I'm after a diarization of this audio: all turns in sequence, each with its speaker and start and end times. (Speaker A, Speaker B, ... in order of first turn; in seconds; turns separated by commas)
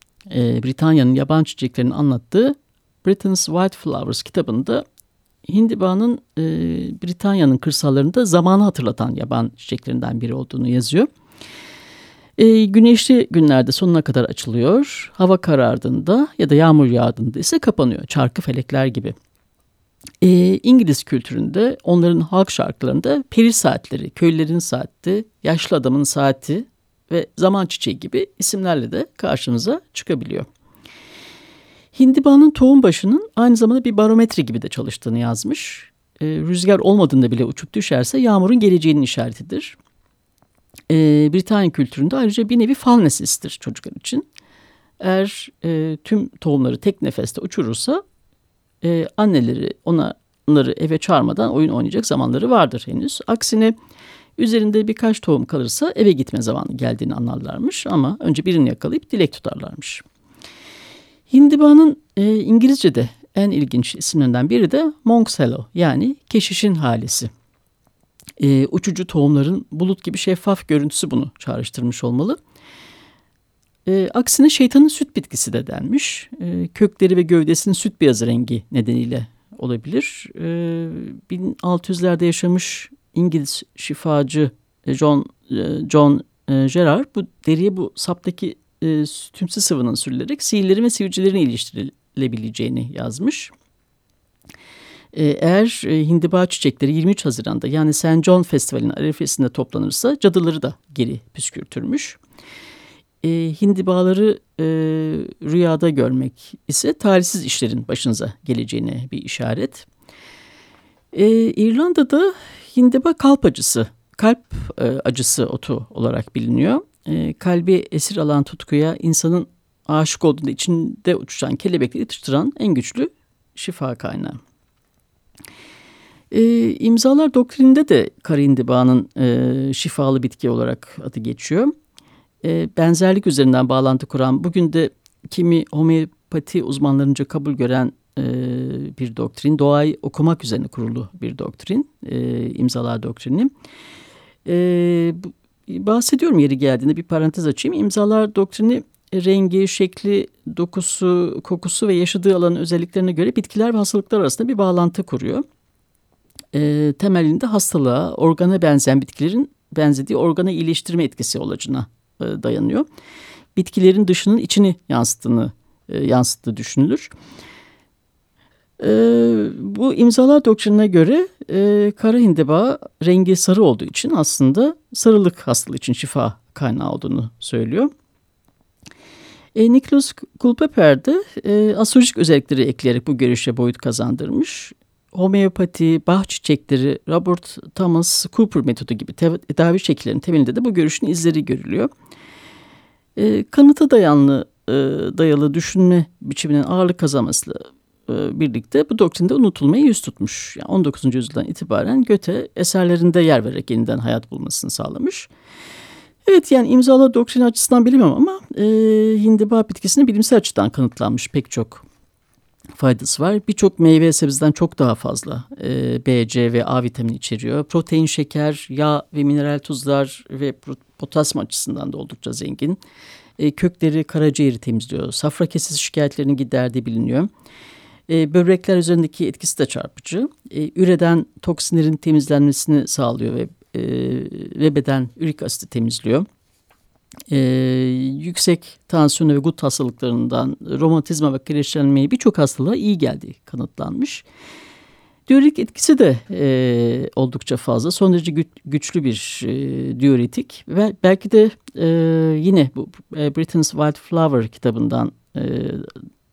Speaker A: 0.3-4.8, Speaker A: 5.5-11.1, Speaker A: 12.4-19.1, Speaker A: 20.2-30.4, Speaker A: 31.9-39.8, Speaker A: 40.9-44.2, Speaker A: 45.0-48.0, Speaker A: 48.8-53.8, Speaker A: 54.4-60.0, Speaker A: 61.3-67.3, Speaker A: 68.4-72.4, Speaker A: 73.8-93.5, Speaker A: 95.1-102.2, Speaker A: 103.2-109.9, Speaker A: 111.1-124.4, Speaker A: 126.3-131.7, Speaker A: 132.4-143.5, Speaker A: 144.4-155.4, Speaker A: 156.5-162.8, Speaker A: 163.6-167.1, Speaker A: 168.8-177.9, Speaker A: 179.5-191.9, Speaker A: 193.2-205.3, Speaker A: 206.2-211.8, Speaker A: 212.7-222.8, Speaker A: 223.4-227.3, Speaker A: 228.1-236.3, Speaker A: 237.3-244.2, Speaker A: 245.3-255.9